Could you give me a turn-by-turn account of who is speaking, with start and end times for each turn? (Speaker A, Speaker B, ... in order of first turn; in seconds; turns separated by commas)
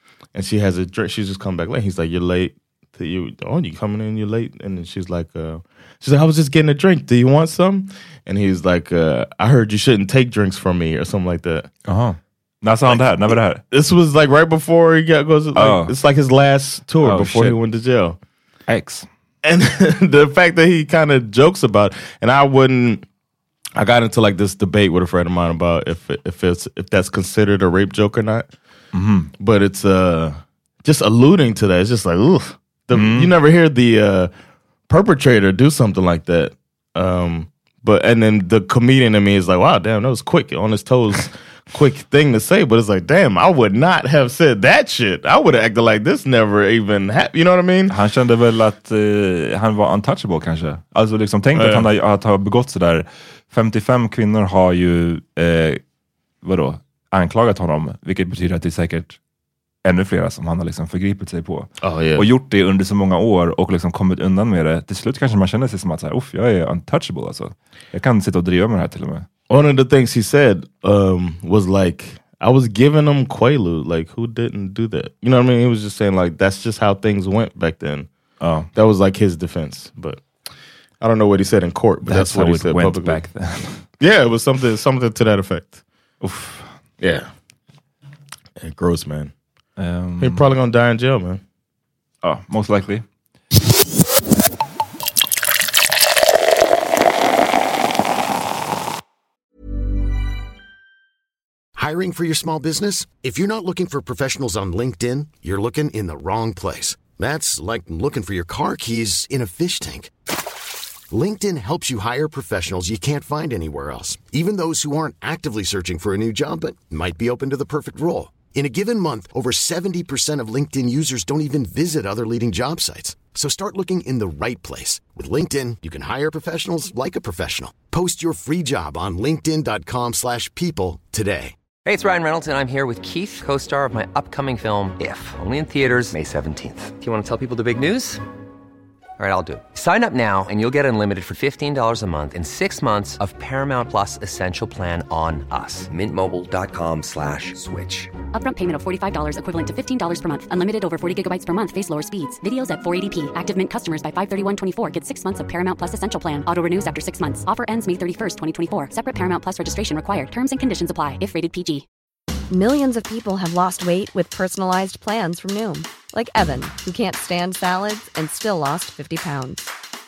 Speaker A: 0.3-11.7, Speaker B: 11.8-13.6, Speaker A: 13.7-18.2, Speaker B: 15.5-15.9, Speaker B: 17.0-17.6, Speaker B: 18.7-19.1, Speaker A: 19.4-23.0, Speaker A: 23.8-28.5, Speaker B: 28.9-29.3, Speaker A: 29.4-34.3, Speaker B: 32.9-33.3, Speaker A: 34.9-47.9, Speaker B: 47.9-55.8, Speaker A: 51.5-51.9, Speaker B: 56.4-59.2, Speaker B: 59.8-69.3, Speaker A: 61.8-62.2, Speaker A: 69.5-78.1, Speaker B: 78.4-78.7, Speaker A: 78.7-80.2, Speaker A: 81.0-83.2, Speaker B: 82.0-83.8, Speaker A: 84.0-85.8, Speaker B: 86.2-86.7, Speaker A: 87.0-87.3, Speaker A: 88.6-89.3, Speaker B: 89.8-90.4, Speaker A: 90.2-91.4, Speaker B: 92.2-93.0, Speaker C: 101.8-110.1, Speaker C: 111.1-131.5, Speaker D: 131.8-138.2, Speaker D: 139.2-148.1, Speaker E: 148.3-161.8, Speaker F: 162.5-169.6